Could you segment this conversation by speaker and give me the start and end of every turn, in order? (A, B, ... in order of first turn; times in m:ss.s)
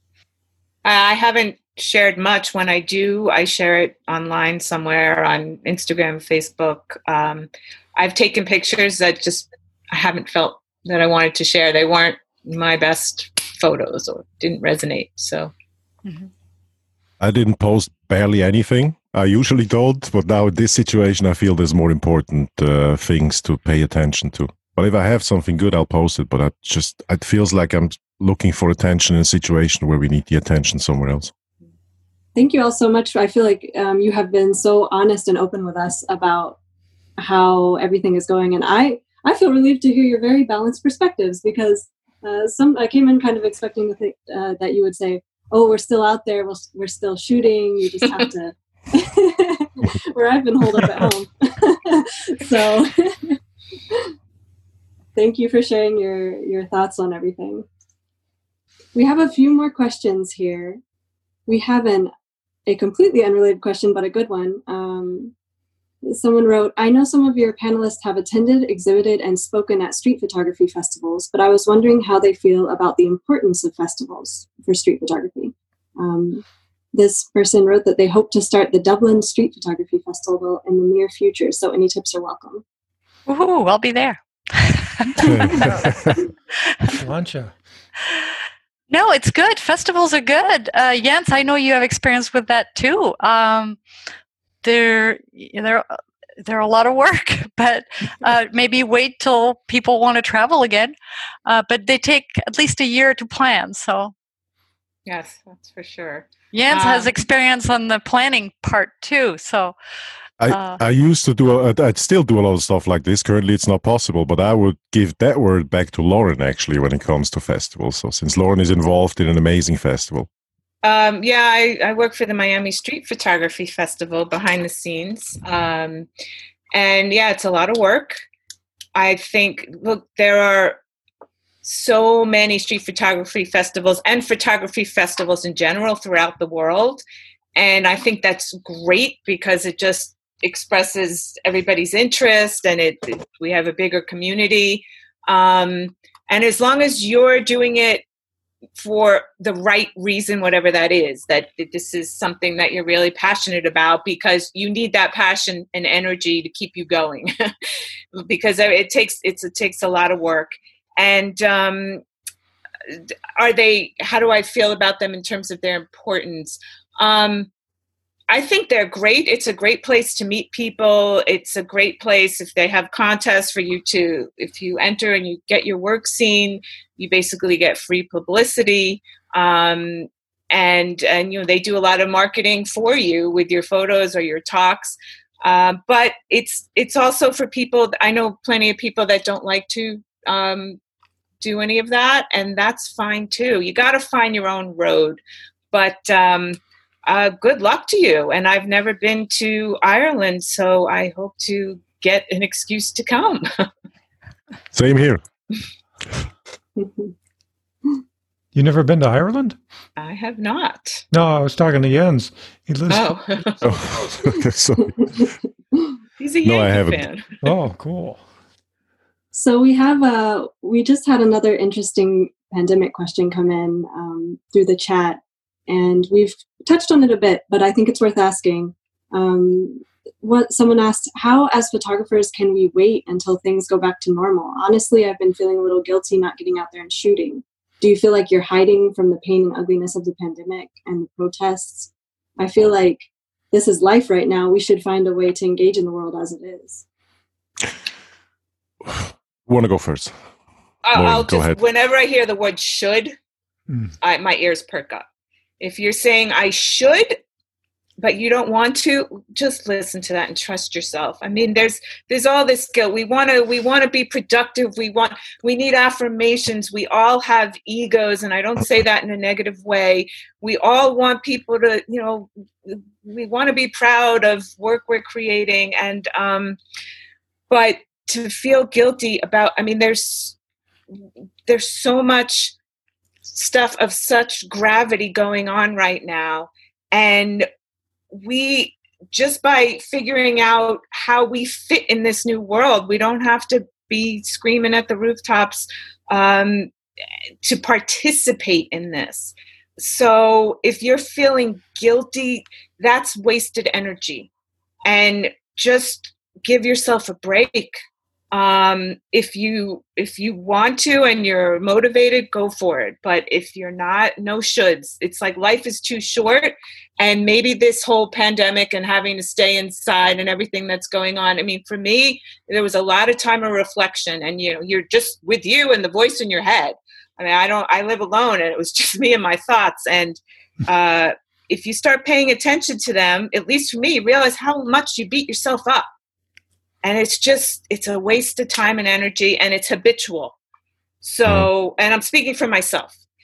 0:00.8-0:15.5 A
0:16.0-0:16.3 B
0:17.2-0:31.3 C
0:32.4-0:36.6 D
0:37.2-0:53.4 D
0:55.2-0:57.7 D
0:59.0-1:00.8 D
1:01.5-1:02.1 D
1:02.7-1:05.3 D
1:06.0-1:22.6 D
1:23.3-1:25.7 B
1:25.3-1:25.6 C
1:25.6-1:26.0 E
1:26.7-1:27.0 B
1:26.8-1:27.6 E
1:28.9-1:33.8 B
1:34.6-1:40.9 B
1:41.5-1:44.1 B
1:45.1-1:47.1 A
1:46.5-1:49.8 B
1:50.4-2:00.3 C
1:50.5-1:50.8 B
2:00.8-2:06.1 A
2:06.7-2:08.2 A
2:09.0-2:10.8 A
2:11.6-2:17.0 A
2:17.6-2:28.0 A
2:28.8-2:37.5 A
2:38.2-2:42.0 A
2:42.9-2:47.5 A
2:48.3-3:10.8 A
3:11.4-3:15.2 A
3:15.7-3:23.7 A
3:24.7-3:25.2 C
3:26.8-3:27.1 D
3:28.5-3:29.6 E
3:30.0-3:31.0 A
3:31.1-3:33.1 E
3:32.9-3:33.8 A
3:33.6-3:35.3 C
3:35.0-3:35.9 D
3:36.2-3:37.4 A
3:36.4-3:37.0 C
3:37.4-3:38.2 E
3:39.3-4:06.8 D
4:08.8-4:10.1 C
4:10.9-4:13.1 A
4:10.9-4:11.6 C
4:14.0-4:15.0 A
4:15.6-4:17.2 A
4:18.0-4:36.6 A
4:37.5-4:40.4 A
4:40.9-4:42.5 A
4:43.3-4:47.5 A
4:48.1-4:56.7 A
4:57.4-5:04.3 A
5:04.8-5:07.8 A
5:08.3-5:35.9 A
5:36.8-5:40.4 A
5:41.0-5:42.9 A